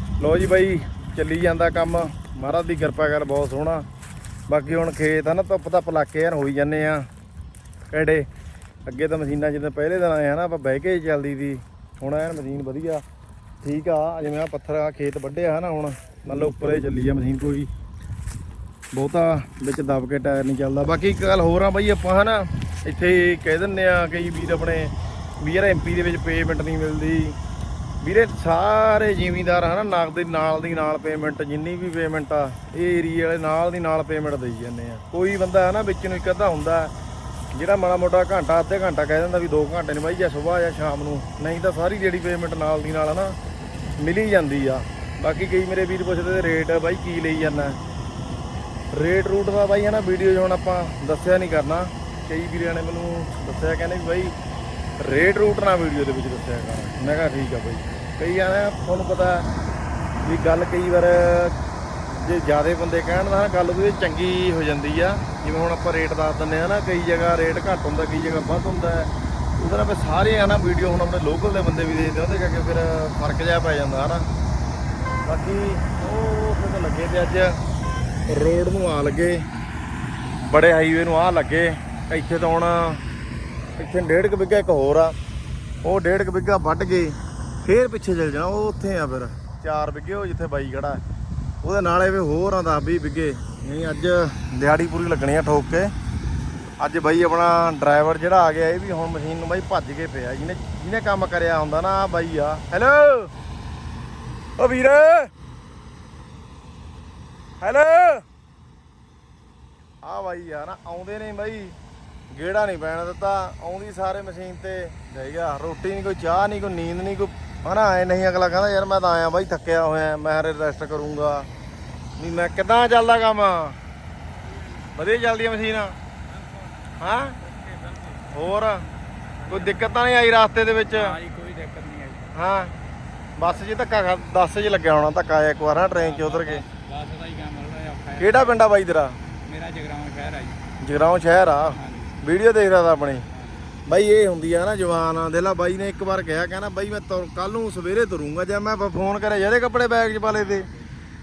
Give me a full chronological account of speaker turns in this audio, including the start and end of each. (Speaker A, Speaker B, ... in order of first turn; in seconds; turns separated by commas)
Speaker A: 0.2-3.9, Speaker A: 4.5-7.1, Speaker A: 7.9-8.3, Speaker A: 8.9-13.0, Speaker A: 13.6-17.7, Speaker A: 18.9-27.4, Speaker A: 28.0-36.9, Speaker A: 37.5-43.4, Speaker A: 44.0-47.8, Speaker A: 48.9-54.3, Speaker A: 55.0-59.5, Speaker A: 60.2-61.5, Speaker A: 62.2-74.3, Speaker A: 75.2-77.6, Speaker A: 78.3-79.4, Speaker A: 80.5-83.0, Speaker A: 83.8-85.1, Speaker A: 85.8-91.0, Speaker A: 91.6-95.9, Speaker A: 96.8-103.3, Speaker A: 104.6-105.3, Speaker A: 107.6-108.2, Speaker A: 110.0-111.8, Speaker A: 112.3-121.5, Speaker A: 122.2-123.8, Speaker A: 124.9-125.9, Speaker B: 126.3-128.3, Speaker A: 127.0-127.3, Speaker A: 128.3-128.8, Speaker B: 129.4-129.9, Speaker A: 129.5-131.1, Speaker B: 130.9-132.3, Speaker A: 132.3-132.7, Speaker A: 133.4-136.6, Speaker B: 135.8-138.6, Speaker A: 138.2-139.2, Speaker B: 139.4-140.6, Speaker A: 140.8-143.2, Speaker B: 141.7-142.2, Speaker B: 143.3-143.8, Speaker A: 143.9-150.7, Speaker B: 150.3-150.9